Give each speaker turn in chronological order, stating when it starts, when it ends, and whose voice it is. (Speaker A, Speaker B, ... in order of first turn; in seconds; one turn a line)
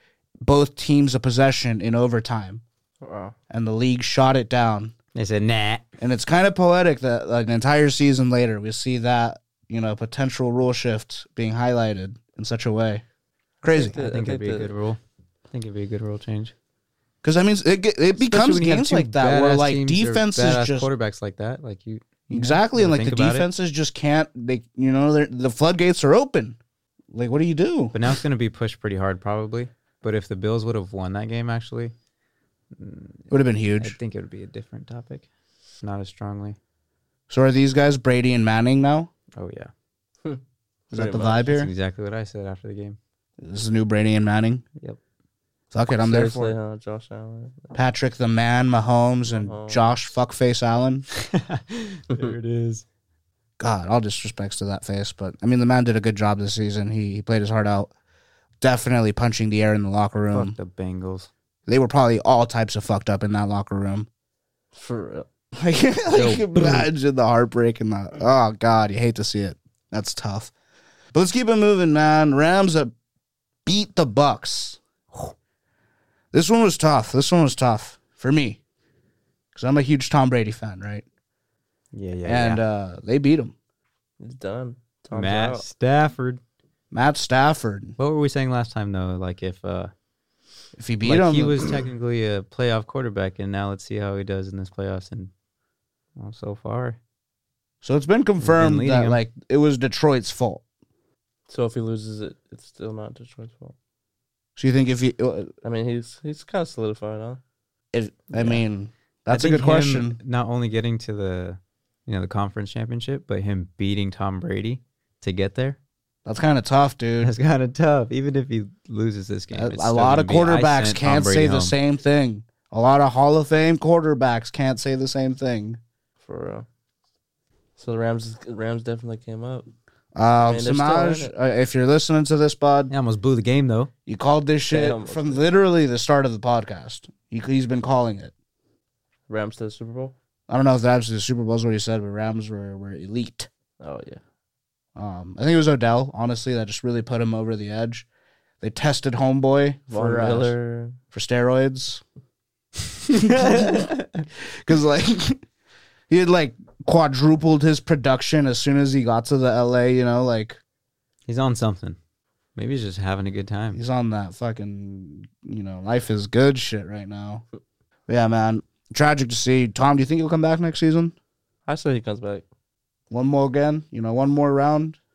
Speaker A: 0.4-2.6
Speaker B: 3.0-3.4
Speaker A: 3.5-4.9
Speaker C: 5.2-5.9
Speaker A: 6.0-13.0
Speaker A: 13.6-14.0
Speaker B: 13.7-14.7
Speaker C: 14.0-15.0
Speaker C: 15.5-16.5
Speaker A: 17.2-20.9
Speaker C: 18.2-23.5
Speaker A: 22.3-26.6
Speaker A: 27.1-28.0
Speaker C: 27.9-31.9
Speaker C: 32.7-35.3
Speaker A: 33.3-34.0
Speaker C: 35.8-36.6
Speaker A: 37.3-39.1
Speaker C: 39.4-39.7
Speaker B: 40.2-41.4
Speaker A: 40.9-41.7
Speaker C: 41.4-43.0
Speaker A: 43.4-44.6
Speaker A: 45.7-46.6
Speaker B: 46.0-47.8
Speaker A: 47.8-51.1
Speaker B: 49.3-49.9
Speaker C: 51.2-52.9
Speaker A: 53.6-57.9
Speaker A: 58.6-60.6
Speaker C: 60.3-61.3
Speaker A: 61.7-64.1
Speaker B: 64.7-65.3
Speaker A: 65.6-70.5
Speaker C: 66.1-66.9
Speaker A: 71.1-72.9
Speaker A: 73.7-75.3
Speaker A: 76.3-78.6
Speaker A: 79.5-81.0
Speaker C: 81.9-82.6
Speaker A: 82.2-83.5
Speaker B: 84.2-85.7
Speaker C: 85.1-86.4
Speaker A: 86.9-88.0
Speaker C: 88.0-89.9
Speaker A: 90.8-91.8
Speaker C: 91.0-95.3
Speaker C: 96.2-97.0
Speaker A: 97.8-100.6
Speaker C: 98.4-99.2
Speaker B: 101.5-103.8
Speaker A: 104.6-105.5
Speaker B: 105.6-107.4
Speaker A: 107.9-110.2
Speaker C: 108.3-108.6
Speaker C: 109.3-115.8
Speaker A: 116.3-117.3
Speaker C: 117.2-121.8
Speaker A: 119.5-125.8
Speaker B: 126.2-126.7
Speaker B: 127.8-129.7
Speaker A: 130.2-132.9
Speaker B: 130.4-131.3
Speaker C: 132.9-133.9
Speaker A: 134.1-138.3
Speaker B: 134.7-135.4
Speaker B: 139.3-140.1
Speaker A: 140.5-143.5
Speaker B: 143.8-144.2
Speaker A: 145.0-148.1
Speaker A: 148.6-150.5
Speaker B: 149.9-151.0
Speaker A: 151.1-152.0
Speaker A: 153.1-155.4
Speaker C: 153.2-154.1
Speaker A: 156.1-160.6
Speaker C: 161.3-162.0
Speaker C: 162.6-163.8
Speaker A: 163.7-167.4
Speaker A: 168.1-171.1
Speaker B: 171.7-172.4
Speaker A: 173.1-175.0